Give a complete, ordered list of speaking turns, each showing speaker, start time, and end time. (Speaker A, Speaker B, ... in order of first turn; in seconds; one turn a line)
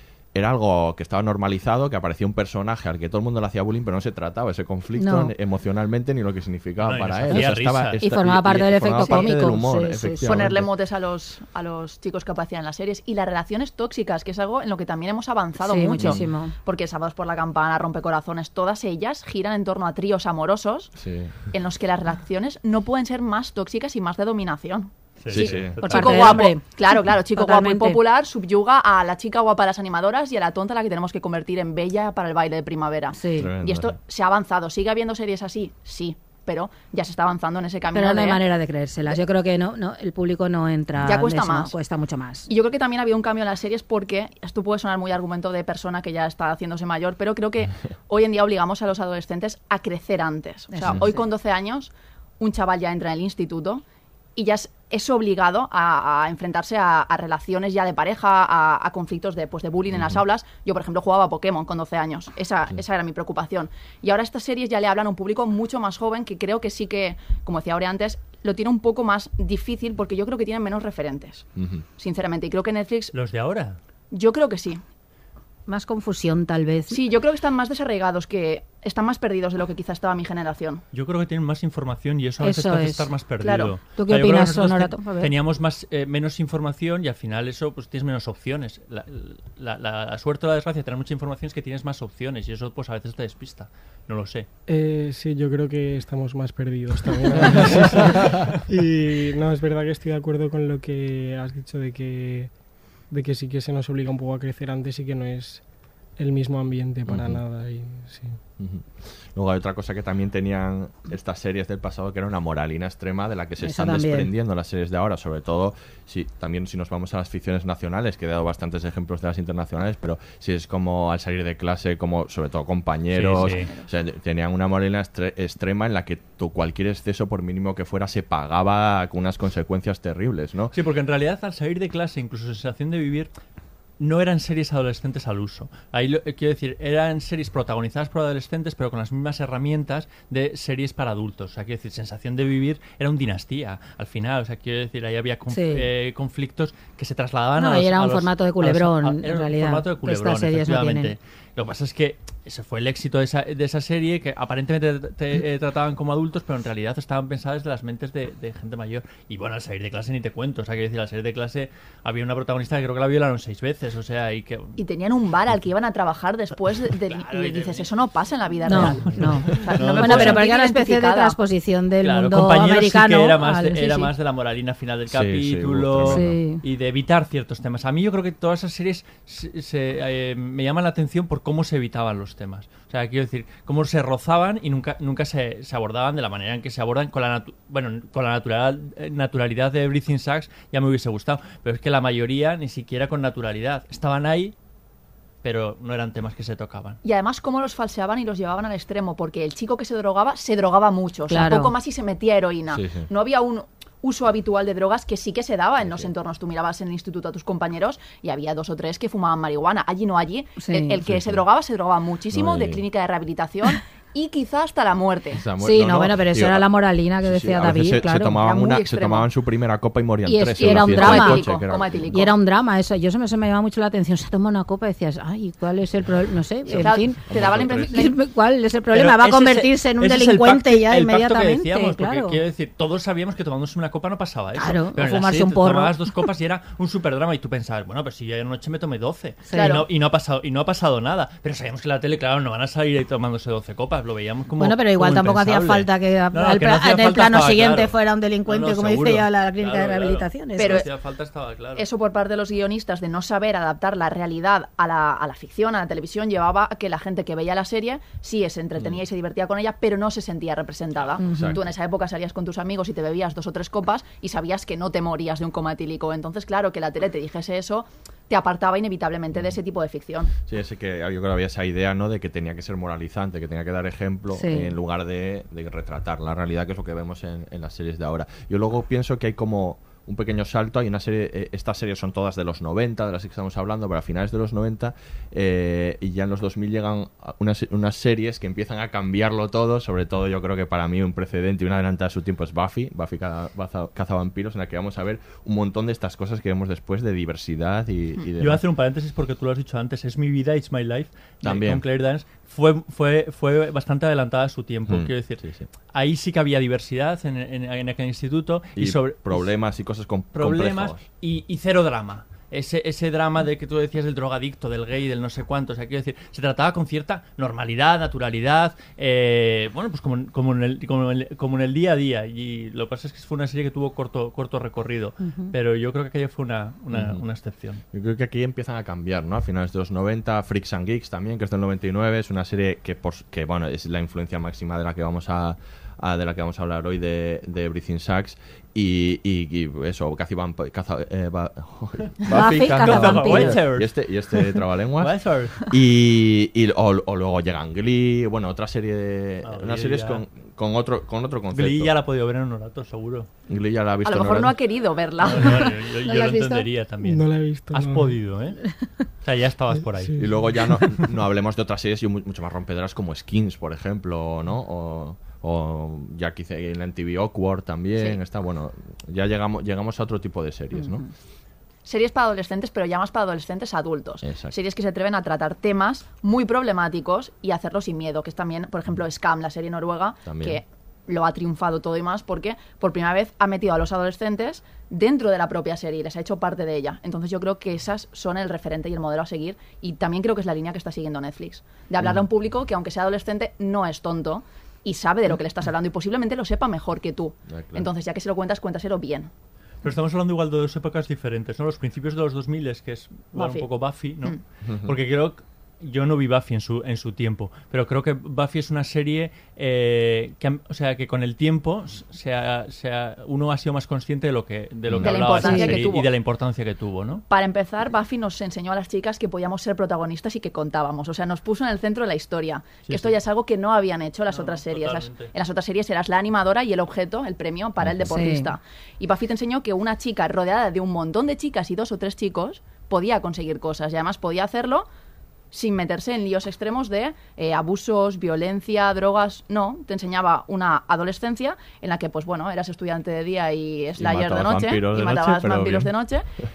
Speaker A: 0.3-10.7
Speaker B: 5.0-5.3
Speaker C: 6.8-8.0
Speaker B: 8.0-10.3
Speaker D: 10.2-20.9
Speaker B: 15.7-16.5
Speaker A: 16.0-16.2
Speaker A: 20.9-21.5
Speaker D: 21.5-24.9
Speaker C: 25.2-26.4
Speaker A: 25.3-25.8
Speaker B: 25.8-26.7
Speaker D: 25.8-38.4
Speaker B: 27.3-28.0
Speaker B: 33.1-33.5
Speaker A: 33.4-34.0
Speaker B: 37.9-42.5
Speaker D: 41.0-41.7
Speaker D: 42.5-53.8
Speaker B: 50.7-51.2
Speaker D: 54.4-73.1
Speaker A: 59.9-60.2
Speaker A: 71.5-71.8
Speaker C: 73.1-73.8
Speaker D: 74.1-74.8
Speaker B: 75.7-77.0
Speaker D: 76.9-80.8
Speaker C: 80.9-94.5
Speaker B: 82.4-83.0
Speaker D: 83.4-83.7
Speaker B: 84.0-85.3
Speaker E: 94.7-102.5
Speaker E: 103.1-105.6
Speaker E: 106.2-108.4
Speaker A: 107.1-107.4
Speaker A: 108.6-130.7
Speaker B: 113.6-114.3
Speaker C: 123.1-123.7
Speaker D: 123.4-123.9
Speaker C: 130.7-133.3
Speaker C: 134.0-164.8
Speaker B: 145.5-145.8
Speaker B: 147.6-151.1
Speaker D: 164.8-171.4
Speaker C: 167.0-170.4
Speaker B: 168.7-174.1
Speaker C: 172.0-194.5
Speaker A: 175.1-176.4
Speaker B: 176.1-176.6
Speaker C: 195.4-197.0
Speaker D: 197.0-215.4
Speaker B: 201.3-201.7
Speaker A: 202.7-203.1
Speaker A: 205.8-206.1
Speaker B: 210.6-211.0
Speaker A: 211.1-211.4
Speaker A: 212.3-212.8
Speaker A: 215.3-216.7
Speaker B: 215.6-218.3
Speaker A: 217.2-222.1
Speaker D: 218.3-219.3
Speaker B: 220.2-221.5
Speaker D: 220.6-222.3
Speaker B: 222.1-227.2
Speaker A: 226.7-227.9
Speaker D: 226.7-228.1
Speaker B: 227.7-232.4
Speaker C: 228.9-251.8
Speaker B: 234.6-235.9
Speaker B: 239.5-239.8
Speaker D: 239.6-239.8
Speaker B: 244.6-250.8
Speaker D: 250.6-250.9
Speaker D: 251.7-270.3
Speaker B: 261.2-261.5
Speaker A: 261.3-261.6
Speaker A: 270.4-298.6
Speaker B: 274.4-274.7
Speaker C: 298.4-309.5
Speaker A: 301.4-301.8
Speaker A: 304.9-305.7
Speaker A: 308.8-311.0
Speaker C: 310.3-327.8
Speaker B: 325.2-325.5
Speaker A: 326.9-327.2
Speaker A: 327.9-351.9
Speaker B: 342.3-343.6
Speaker C: 342.8-344.1
Speaker C: 345.0-345.7
Speaker C: 349.4-350.2
Speaker C: 351.5-353.3
Speaker A: 353.5-354.5
Speaker D: 354.0-355.7
Speaker C: 355.2-358.6
Speaker B: 356.1-356.6
Speaker E: 357.0-358.2
Speaker C: 359.2-360.6
Speaker E: 360.0-360.7
Speaker A: 360.2-371.0
Speaker B: 370.7-371.1
Speaker D: 371.8-399.3
Speaker A: 374.2-374.5
Speaker A: 380.2-380.6
Speaker A: 397.5-397.9
Speaker C: 399.8-417.2
Speaker D: 403.3-403.7
Speaker A: 404.6-405.0
Speaker A: 414.9-415.5
Speaker D: 415.0-416.1
Speaker B: 415.4-415.8
Speaker D: 417.3-434.9
Speaker C: 422.9-423.2
Speaker C: 424.3-425.3
Speaker A: 427.8-428.2
Speaker B: 428.1-428.5
Speaker D: 435.5-446.3
Speaker A: 444.0-445.9